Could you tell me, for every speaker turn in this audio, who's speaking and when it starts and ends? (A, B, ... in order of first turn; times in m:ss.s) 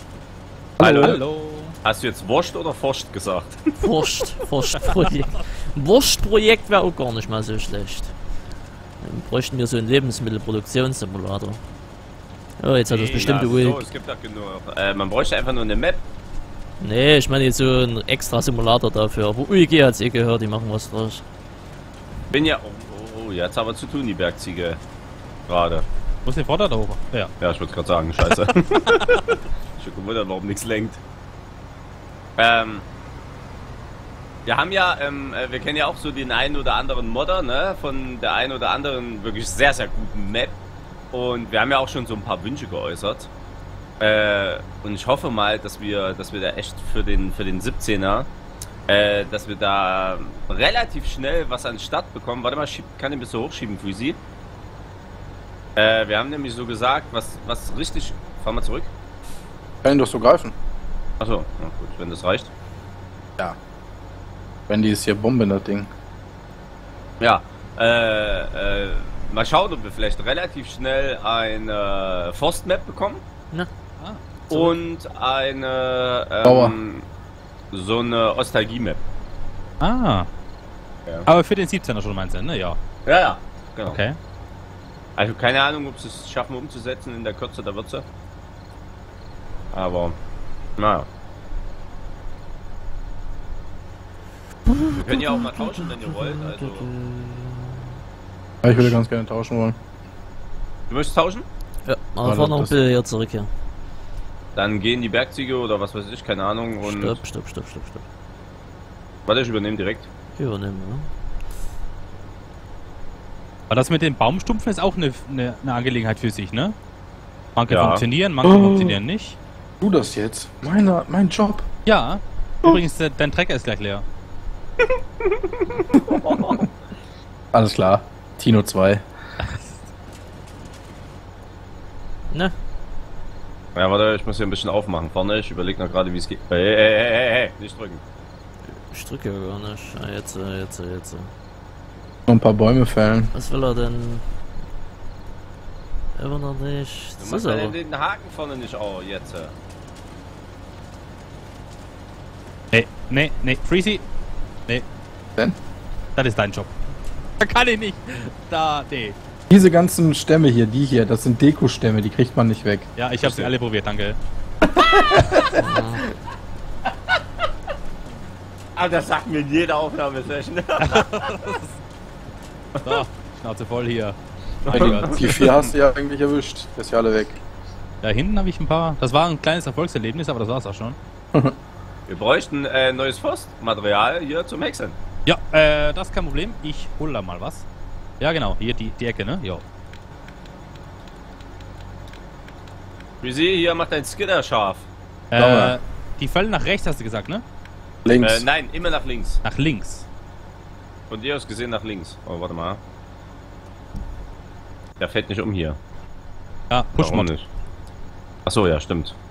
0:00.8-0:01.2 A
0:00.8-0:01.8 B
0:00.8-0:01.2 C
0:01.8-0:03.7 A
0:03.8-0:08.1 D
0:09.0-0:11.6 D
0:12.6-0:13.9 D
0:12.9-0:16.0 A
0:16.8-0:21.2 D
0:22.3-0:24.8 A
0:25.5-0:25.8 A
0:26.2-0:27.3 B
0:27.4-0:31.0 A
0:32.4-0:32.8 A
0:34.4-0:40.6 A
0:41.1-0:43.3 A
0:44.0-0:48.3 A
0:48.9-0:54.2 A
0:55.8-0:58.9 A
0:59.8-1:00.5 C
1:01.2-1:02.5 A
1:04.7-1:05.9 C
1:07.2-1:13.2 A
1:14.5-1:17.0 A
1:16.4-1:16.8 C
1:17.7-1:19.0 A
1:19.8-1:20.3 B
1:21.2-1:22.8 B
1:23.0-1:24.0 A
1:23.9-1:24.2 B
1:25.2-1:28.0 A
1:29.7-1:30.2 A
1:30.8-1:31.1 A
1:34.6-1:38.0 D
1:34.9-1:36.9 A
1:38.6-1:39.8 C
1:38.7-1:39.0 D
1:40.9-1:41.4 A
1:41.8-1:43.5 D
1:42.2-1:42.8 C
1:44.5-1:47.2 A
1:46.8-1:48.0 D
1:49.3-1:50.1 A
1:50.4-1:51.1 D
1:53.7-1:56.8 B
1:57.5-1:59.4 B
1:57.7-1:58.0 A
1:58.4-1:59.0 C
1:59.8-2:01.6 C
2:01.8-2:04.0 B
2:05.2-2:06.7 A
2:07.5-2:09.0 C
2:09.4-2:09.8 B
2:13.7-2:18.0 A
2:18.9-2:21.3 D
2:22.3-2:23.3 C
2:23.3-2:24.2 D
2:26.2-2:27.7 D
2:27.2-2:29.5 A
2:32.7-2:34.0 B
2:36.2-2:36.7 B
2:37.4-2:39.2 B
2:39.5-2:42.9 C
2:43.0-2:44.2 B
2:43.2-2:43.5 A
2:45.5-2:46.0 D
2:48.8-2:51.3 A
2:50.8-2:51.7 B
2:52.8-2:53.0 A
2:52.8-2:54.2 B
2:54.6-2:55.7 A
2:54.7-2:57.4 C
2:54.7-2:55.2 B
2:58.0-3:01.0 B
3:02.1-3:05.0 A
3:05.2-3:07.6 B
3:08.2-3:09.6 B
3:13.2-3:14.9 A
3:15.3-3:17.4 B
3:15.4-3:15.8 C
3:18.0-3:18.4 C
3:18.2-3:19.4 A
3:19.4-3:20.0 B
3:21.1-3:22.8 A
3:25.0-3:25.8 A
3:26.7-3:27.3 B
3:27.0-3:27.4 A
3:28.4-3:29.1 A